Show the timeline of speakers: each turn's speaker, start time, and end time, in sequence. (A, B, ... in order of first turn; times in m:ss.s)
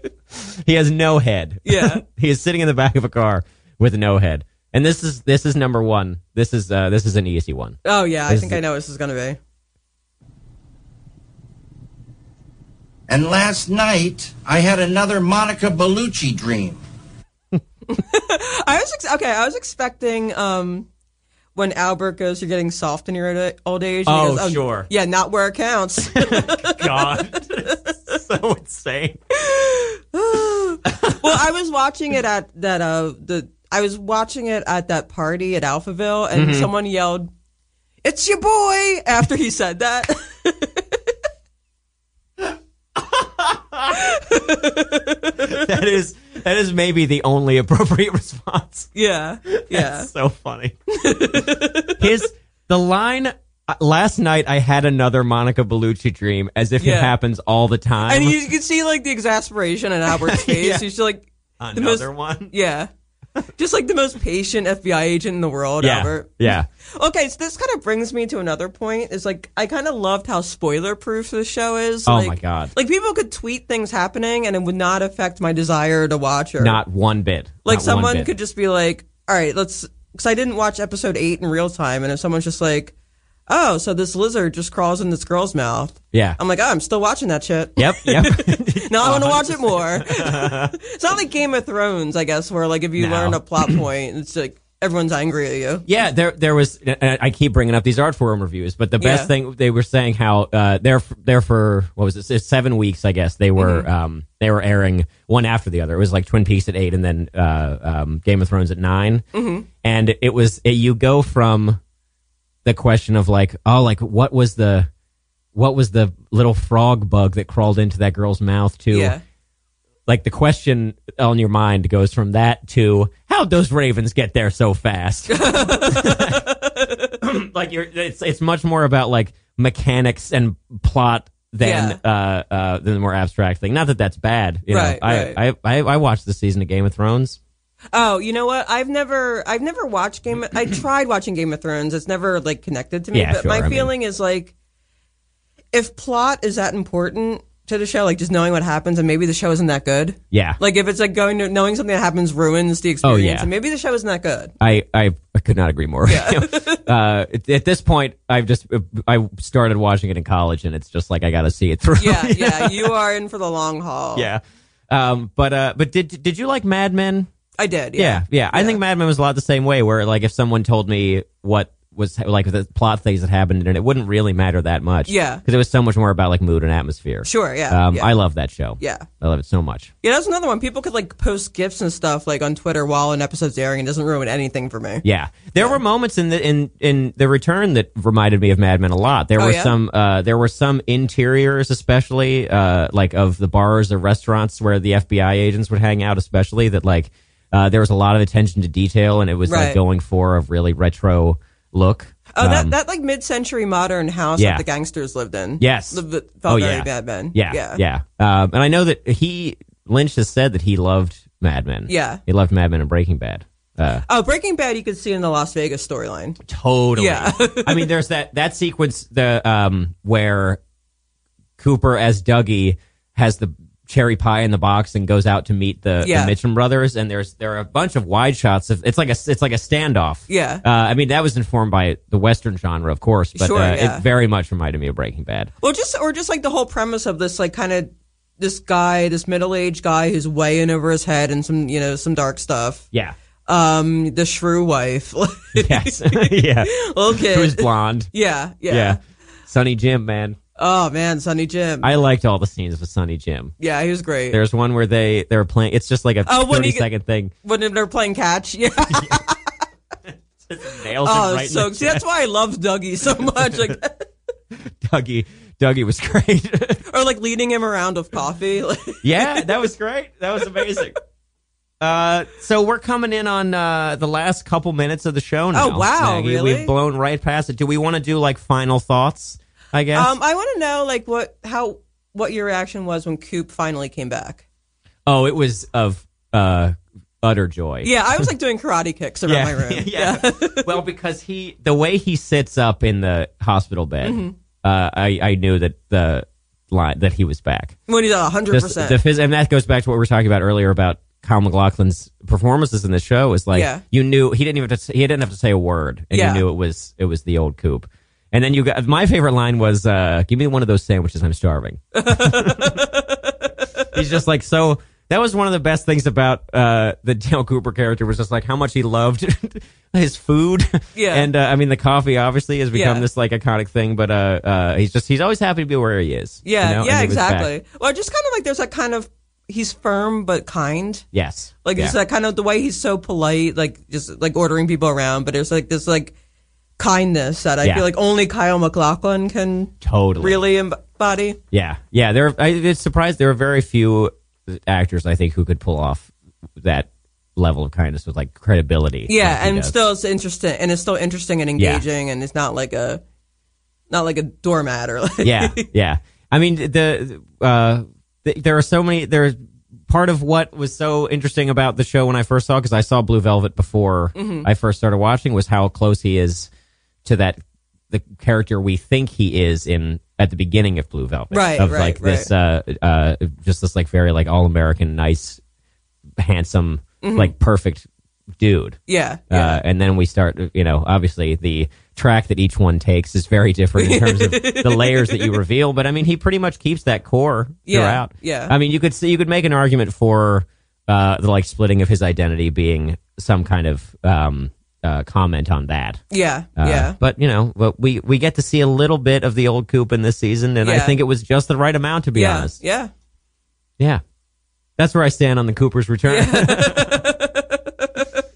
0:00.5-0:08.6 A
0:01.6-0:02.0 B
0:07.8-0:09.4 B
0:13.1-0:16.8 C
0:17.9-0:20.9 B
0:21.6-0:27.8 B
0:24.1-0:24.9 A
0:26.0-0:29.2 A
0:29.4-0:37.3 B
0:30.9-0:31.3 A
0:36.4-0:36.7 A
0:38.0-0:41.0 B
0:43.0-0:44.0 A
0:43.9-0:45.4 B
0:45.4-0:48.9 A
0:49.0-0:50.1 B
0:49.5-0:50.8 A
0:50.9-0:52.0 B
0:52.0-0:58.4 A
0:56.8-0:57.1 B
0:58.1-1:02.9 B
1:00.1-1:00.9 A
1:01.6-1:02.5 A
1:03.6-1:16.8 B
1:05.8-1:06.7 A
1:12.1-1:12.7 A
1:16.6-1:18.3 A
1:17.6-1:22.9 B
1:23.5-1:35.9 B
1:26.1-1:26.4 A
1:27.8-1:30.8 A
1:33.0-1:33.8 A
1:35.9-1:49.3 A
1:39.0-1:39.3 B
1:43.6-1:43.9 B
1:49.3-1:49.7 B
1:49.8-1:51.8 A
1:52.6-1:54.9 A
1:55.6-1:59.2 A
1:58.9-1:59.2 B
2:00.1-2:06.5 A
2:05.3-2:07.0 B
2:07.2-2:17.4 A
2:11.6-2:12.0 B
2:14.7-2:15.4 B
2:17.9-2:24.5 B
2:23.1-2:23.9 A
2:25.7-2:34.5 B
2:30.3-2:30.6 A
2:33.0-2:33.5 A
2:34.6-2:42.9 A
2:36.1-2:36.8 B
2:42.0-2:44.3 B
2:44.2-2:47.3 A
2:47.6-2:48.8 B
2:48.0-2:59.9 A
2:55.1-2:55.4 B
2:57.2-2:58.1 B
2:58.8-2:59.1 B
3:00.0-3:05.0 B
3:05.0-3:22.7 A
3:09.4-3:09.7 B
3:19.5-3:19.8 B
3:22.3-3:27.8 B
3:24.4-3:24.6 A
3:25.6-3:34.0 A
3:31.9-3:32.2 B
3:34.1-3:36.4 B
3:36.4-3:40.6 A
3:37.0-3:37.9 B
3:41.6-3:55.5 A
3:46.0-3:46.3 B
3:50.3-3:50.6 B
3:53.4-3:54.0 B
3:55.6-4:02.8 B
4:03.5-4:09.0 B
4:05.6-4:08.1 A
4:08.7-4:10.4 A
4:10.6-4:11.9 B
4:11.8-4:13.5 A
4:13.6-4:14.4 B
4:14.3-4:17.3 A
4:16.3-4:16.9 B
4:17.4-4:19.4 B
4:20.4-4:22.0 A
4:21.0-4:24.1 B
4:24.8-4:26.8 A
4:26.9-4:29.7 B
4:29.0-4:31.0 A
4:31.8-4:40.1 A
4:35.5-4:36.7 B
4:39.9-4:44.4 B
4:45.1-4:48.3 A
4:47.8-4:50.7 B
4:49.3-4:57.8 A
4:54.0-4:54.4 B
4:57.9-4:59.0 B
4:58.5-5:12.8 A
5:03.5-5:03.8 B
5:06.1-5:06.4 B
5:11.9-5:13.5 B
5:13.9-5:27.5 A
5:21.0-5:21.3 B
5:22.7-5:23.0 B
5:26.4-5:31.0 B
5:31.1-5:32.0 A
5:31.6-5:36.1 B
5:36.8-5:41.4 B
5:39.8-5:40.4 A
5:41.5-5:49.8 A
5:49.1-5:53.0 B
5:51.6-5:51.8 A
5:53.9-5:55.6 B
5:55.2-6:06.5 A
6:04.2-6:04.5 B
6:07.0-6:15.4 A
6:11.3-6:12.3 B
6:16.2-6:36.0 A
6:17.0-6:17.3 B
6:18.9-6:19.6 B
6:23.8-6:25.4 B
6:27.7-6:28.5 B
6:36.1-6:37.0 B
6:36.6-6:42.6 A
6:40.6-6:41.0 B
6:42.1-6:42.9 B
6:44.8-6:47.0 A
6:46.1-6:48.0 B